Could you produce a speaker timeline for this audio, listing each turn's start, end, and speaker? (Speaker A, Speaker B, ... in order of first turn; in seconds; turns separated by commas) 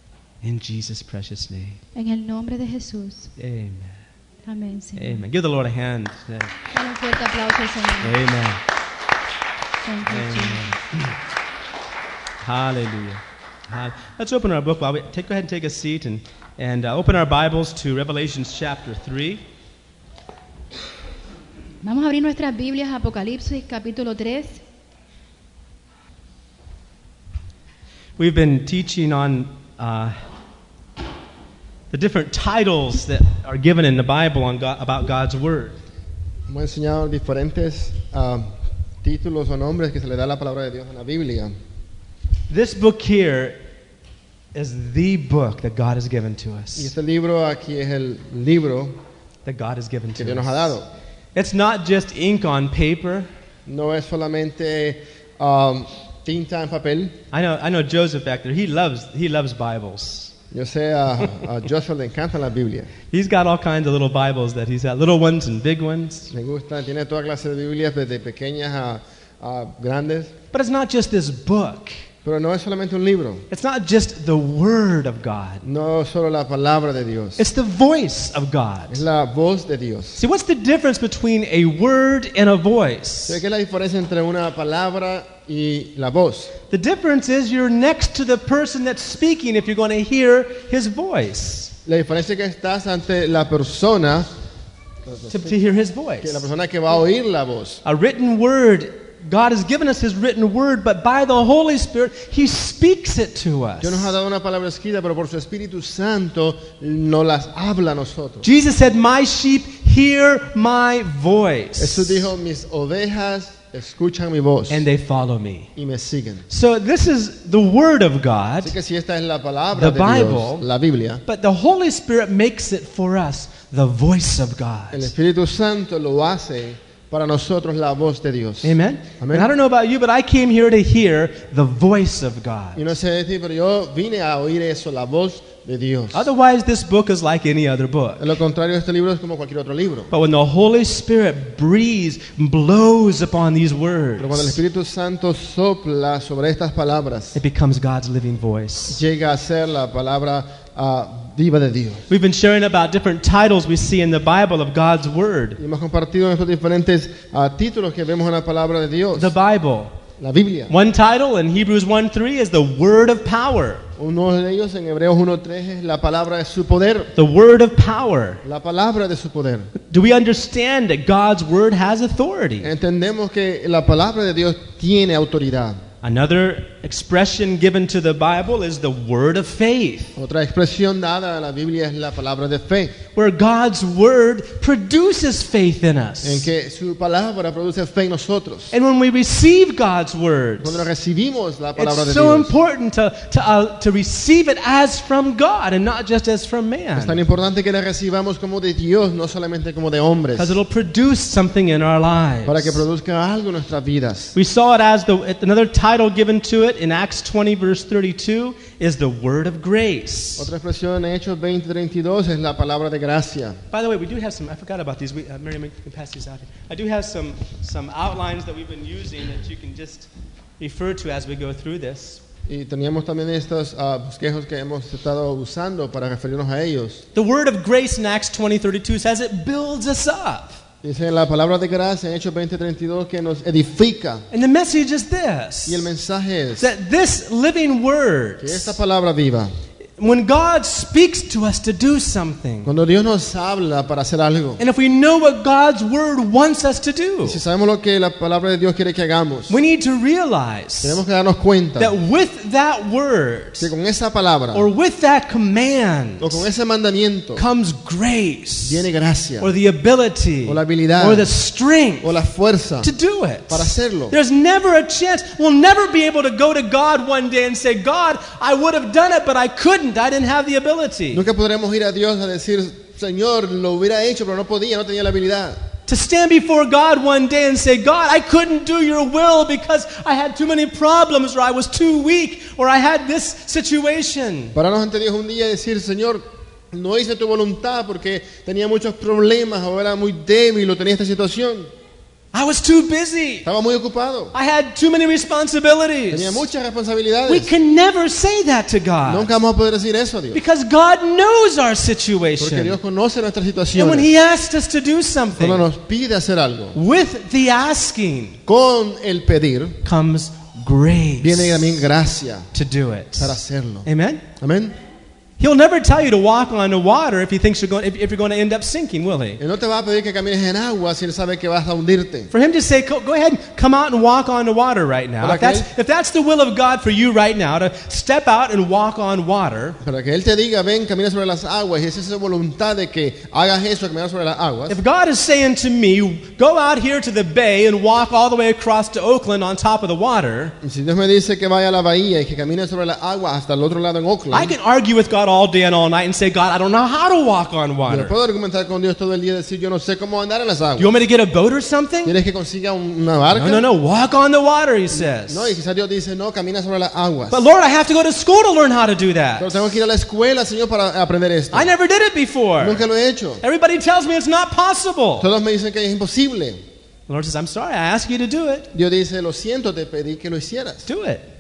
Speaker A: 0.4-1.8, Speaker B: 1.9-3.3, Speaker A: 3.4-4.0, Speaker B: 4.5-5.3, Speaker A: 5.0-6.5, Speaker B: 6.7-8.2, Speaker A: 8.0-8.6, Speaker B: 9.8-10.8, Speaker A: 10.1-11.2, Speaker A: 12.4-19.4, Speaker B: 21.8-24.6, Speaker A: 28.2-30.2, Speaker A: 31.9-35.8, Speaker C: 36.5-41.5, Speaker A: 42.5-43.6, Speaker A: 44.5-46.9, Speaker C: 46.8-49.0, Speaker A: 49.5-50.8, Speaker C: 50.2-50.9, Speaker A: 51.4-53.3, Speaker C: 53.7-57.2, Speaker A: 57.3-60.3, Speaker C: 60.5-62.9, Speaker A: 63.1-66.3, Speaker C: 66.3-70.3, Speaker A: 70.5-72.0, Speaker C: 72.2-73.5, Speaker A: 73.5-75.6, Speaker C: 75.6-77.4, Speaker A: 77.4-79.0, Speaker C: 78.9-80.2, Speaker A: 80.2-83.4, Speaker C: 83.3-86.5, Speaker A: 86.7-91.7, Speaker C: 91.9-94.3, Speaker C: 95.1-95.6, Speaker A: 95.3-96.5, Speaker C: 96.2-97.8, Speaker A: 97.8-104.1, Speaker C: 103.8-108.5, Speaker A: 108.4-112.3, Speaker C: 111.8-114.9, Speaker A: 114.7-115.7, Speaker C: 115.8-116.5, Speaker A: 116.5-118.8, Speaker C: 118.6-121.2, Speaker A: 119.8-120.6, Speaker A: 121.3-125.1, Speaker C: 124.9-129.5, Speaker A: 128.6-132.8, Speaker C: 132.8-136.3, Speaker A: 136.1-138.3, Speaker C: 138.2-140.1, Speaker A: 140.1-144.6, Speaker C: 144.2-147.4, Speaker A: 147.3-149.0, Speaker C: 148.9-152.1, Speaker A: 152.1-155.6, Speaker C: 155.6-159.3, Speaker A: 159.1-159.9, Speaker C: 160.2-160.7, Speaker A: 160.7-163.8, Speaker C: 164.0-167.1, Speaker A: 167.2-168.4, Speaker C: 168.4-169.7, Speaker A: 169.8-172.7, Speaker C: 172.6-175.8, Speaker A: 176.0-180.2, Speaker C: 180.2-183.0, Speaker A: 183.1-186.5, Speaker C: 186.2-188.7, Speaker A: 188.7-190.8, Speaker C: 190.6-192.5, Speaker A: 191.8-197.2, Speaker C: 197.0-200.6, Speaker A: 200.4-202.8, Speaker C: 202.4-204.3, Speaker A: 204.3-210.5, Speaker C: 210.4-213.6, Speaker A: 213.7-222.2, Speaker C: 222.5-227.0, Speaker A: 227.2-230.6, Speaker C: 230.8-234.3, Speaker A: 234.3-235.9, Speaker C: 235.7-236.7, Speaker A: 236.6-238.8, Speaker C: 238.4-239.5, Speaker A: 240.0-242.7, Speaker C: 242.6-244.6, Speaker A: 244.6-247.4, Speaker C: 247.2-249.6, Speaker A: 249.5-251.0, Speaker C: 250.8-251.9, Speaker A: 251.8-253.7, Speaker C: 253.6-254.7, Speaker A: 254.5-256.5, Speaker C: 256.2-257.4, Speaker A: 257.4-258.9, Speaker C: 258.7-259.5, Speaker A: 259.4-262.1, Speaker C: 260.5-261.3, Speaker C: 262.0-262.9, Speaker A: 262.8-271.2, Speaker C: 263.5-264.2, Speaker C: 271.1-275.6, Speaker A: 275.9-284.6, Speaker C: 284.6-291.7, Speaker A: 292.3-293.5, Speaker C: 293.4-294.3, Speaker A: 294.3-296.5, Speaker C: 296.1-297.5, Speaker A: 297.3-299.3, Speaker C: 299.1-300.4, Speaker A: 300.3-302.8, Speaker C: 302.4-304.1, Speaker A: 303.8-305.7, Speaker C: 305.4-306.8, Speaker A: 306.7-308.4, Speaker C: 308.5-309.8, Speaker A: 309.8-311.8, Speaker C: 311.2-312.5, Speaker A: 312.5-314.2, Speaker C: 313.2-313.9, Speaker C: 314.4-314.8, Speaker A: 315.4-319.4, Speaker C: 319.4-322.3, Speaker A: 322.3-329.8, Speaker C: 325.2-325.7, Speaker C: 329.8-334.8, Speaker A: 334.7-340.6, Speaker C: 340.6-344.5, Speaker A: 344.3-348.1, Speaker C: 347.9-350.9, Speaker A: 350.8-352.1, Speaker C: 352.1-353.7, Speaker A: 353.3-355.6, Speaker C: 354.9-357.4, Speaker A: 357.3-359.8, Speaker C: 359.4-361.7, Speaker A: 361.5-362.8, Speaker C: 362.6-363.4, Speaker A: 363.4-365.3, Speaker C: 365.2-366.6, Speaker A: 367.1-368.7, Speaker C: 368.7-370.9, Speaker A: 370.9-371.3